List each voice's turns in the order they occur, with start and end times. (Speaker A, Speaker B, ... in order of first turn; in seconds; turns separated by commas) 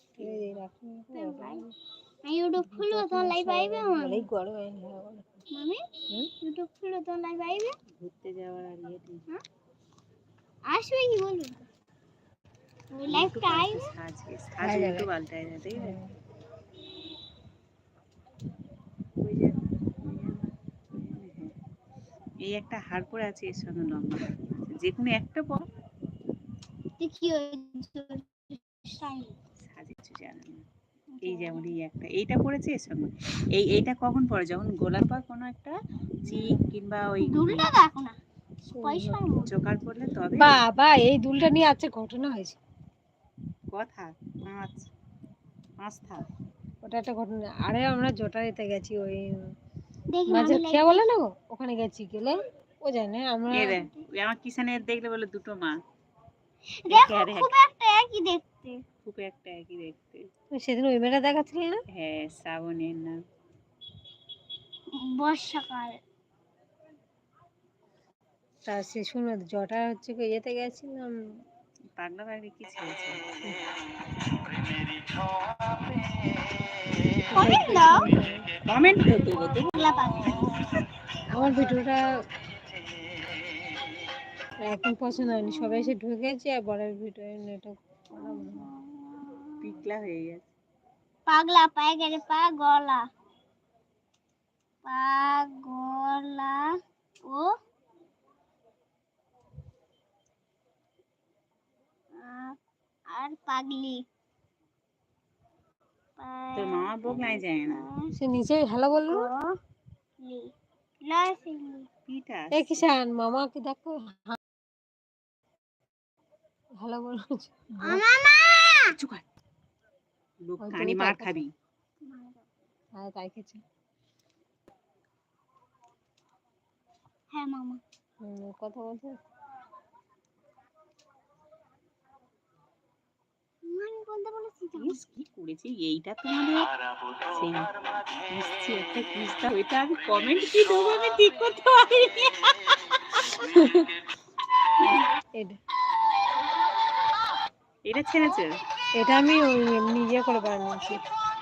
Speaker A: 0.2-0.5, Speaker B: 0.2-1.7, Speaker C: 1.1-1.6, Speaker C: 2.2-4.2, Speaker B: 2.6-5.3, Speaker C: 5.5-5.8, Speaker C: 6.4-7.7, Speaker A: 8.0-9.2, Speaker C: 10.7-11.6, Speaker C: 12.9-13.9, Speaker A: 13.1-16.0, Speaker B: 14.6-15.1, Speaker B: 15.8-16.1, Speaker A: 19.2-21.5, Speaker A: 22.5-25.6, Speaker C: 27.0-29.3, Speaker A: 29.7-30.6, Speaker C: 31.1-31.8, Speaker A: 31.2-35.7, Speaker A: 36.2-37.7, Speaker C: 37.2-38.2, Speaker B: 38.7-39.2, Speaker C: 38.8-39.5, Speaker A: 39.4-40.6, Speaker B: 40.4-42.6, Speaker A: 43.7-44.9, Speaker A: 45.8-46.2, Speaker B: 46.8-49.2, Speaker C: 50.1-51.0, Speaker B: 50.3-53.9, Speaker A: 53.5-55.7, Speaker C: 56.9-58.8, Speaker A: 56.9-57.5, Speaker A: 59.0-60.2, Speaker B: 60.5-61.8, Speaker A: 61.9-63.2, Speaker C: 65.0-66.0, Speaker B: 68.7-71.1, Speaker A: 72.0-73.2, Speaker B: 77.3-78.4, Speaker C: 77.3-78.0, Speaker A: 78.7-79.7, Speaker C: 79.6-80.6, Speaker B: 81.3-82.0, Speaker B: 84.6-88.7, Speaker C: 85.5-85.9, Speaker C: 88.2-89.6, Speaker A: 89.6-90.5, Speaker C: 91.3-93.0, Speaker C: 94.8-96.7, Speaker C: 102.2-102.6, Speaker C: 103.1-104.0, Speaker C: 106.2-108.0, Speaker A: 106.6-107.9, Speaker B: 108.2-109.3, Speaker C: 109.1-109.5, Speaker C: 110.2-110.5, Speaker C: 111.1-111.9, Speaker A: 112.1-112.9, Speaker B: 112.5-114.4, Speaker B: 116.8-118.0, Speaker C: 117.8-118.9, Speaker A: 118.9-119.3, Speaker A: 120.4-121.5, Speaker B: 120.6-121.4, Speaker C: 122.0-122.4, Speaker B: 123.0-123.6, Speaker C: 127.3-127.8, Speaker B: 128.2-129.2, Speaker C: 133.7-135.0, Speaker A: 134.8-136.7, Speaker A: 137.3-137.7, Speaker A: 138.3-142.7, Speaker B: 143.4-143.9, Speaker A: 147.8-148.6, Speaker B: 149.0-151.0